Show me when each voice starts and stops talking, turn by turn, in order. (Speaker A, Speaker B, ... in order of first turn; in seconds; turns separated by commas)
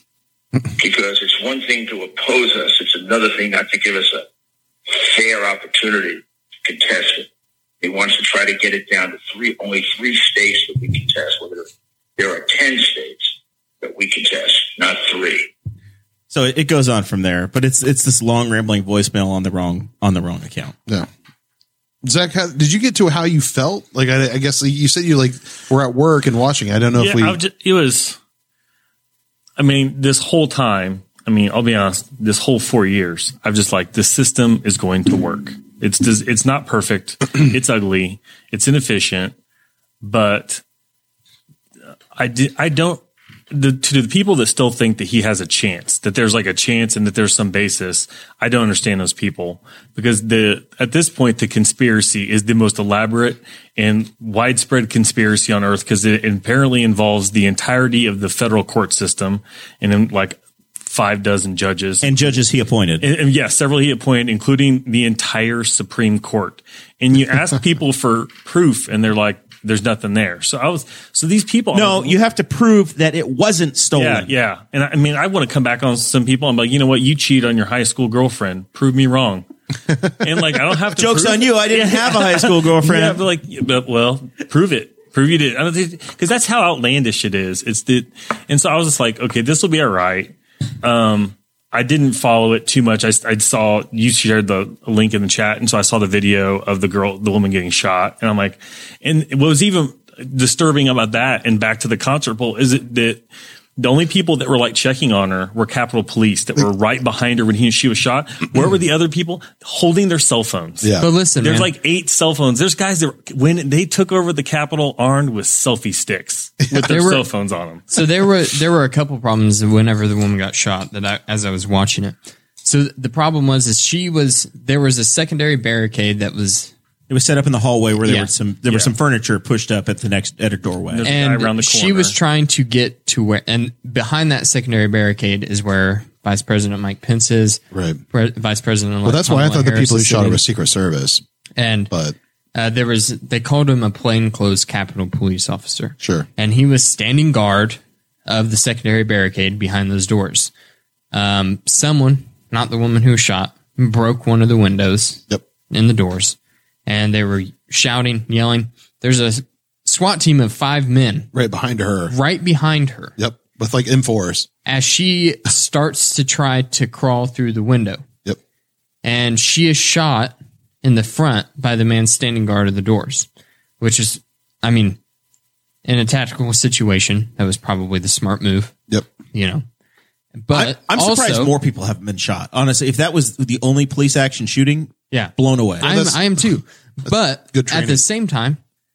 Speaker A: 0.8-4.3, Speaker A: 4.9-7.3, Speaker A: 7.8-15.5, Speaker B: 16.3-20.8, Speaker C: 22.0-27.4, Speaker D: 27.0-28.2, Speaker D: 29.6-39.3, Speaker D: 40.0-40.6, Speaker D: 42.2-62.4, Speaker B: 62.0-63.1, Speaker D: 63.0-72.2, Speaker B: 71.7-74.3, Speaker D: 74.0-79.5, Speaker D: 80.2-103.2, Speaker B: 81.0-83.2, Speaker D: 103.8-117.9, Speaker C: 110.8-111.1, Speaker E: 111.0-111.7, Speaker E: 116.8-117.2, Speaker E: 117.9-126.7, Speaker B: 127.1-131.1, Speaker E: 128.0-128.3, Speaker D: 130.9-132.2, Speaker E: 131.0-137.6, Speaker C: 137.7-138.0, Speaker E: 138.1-140.4, Speaker C: 139.1-141.2, Speaker E: 141.6-141.9, Speaker C: 141.9-142.2, Speaker E: 142.6-150.5, Speaker C: 146.0-146.3, Speaker E: 151.1-161.3, Speaker C: 161.3-162.2, Speaker E: 162.1-163.2, Speaker C: 163.2-164.5, Speaker E: 164.7-168.0, Speaker E: 169.0-173.3, Speaker E: 173.8-175.0, Speaker E: 175.8-178.7, Speaker E: 179.3-179.6, Speaker E: 180.4-181.5, Speaker B: 180.5-185.9, Speaker E: 185.1-188.6, Speaker C: 185.8-186.6, Speaker C: 187.1-188.0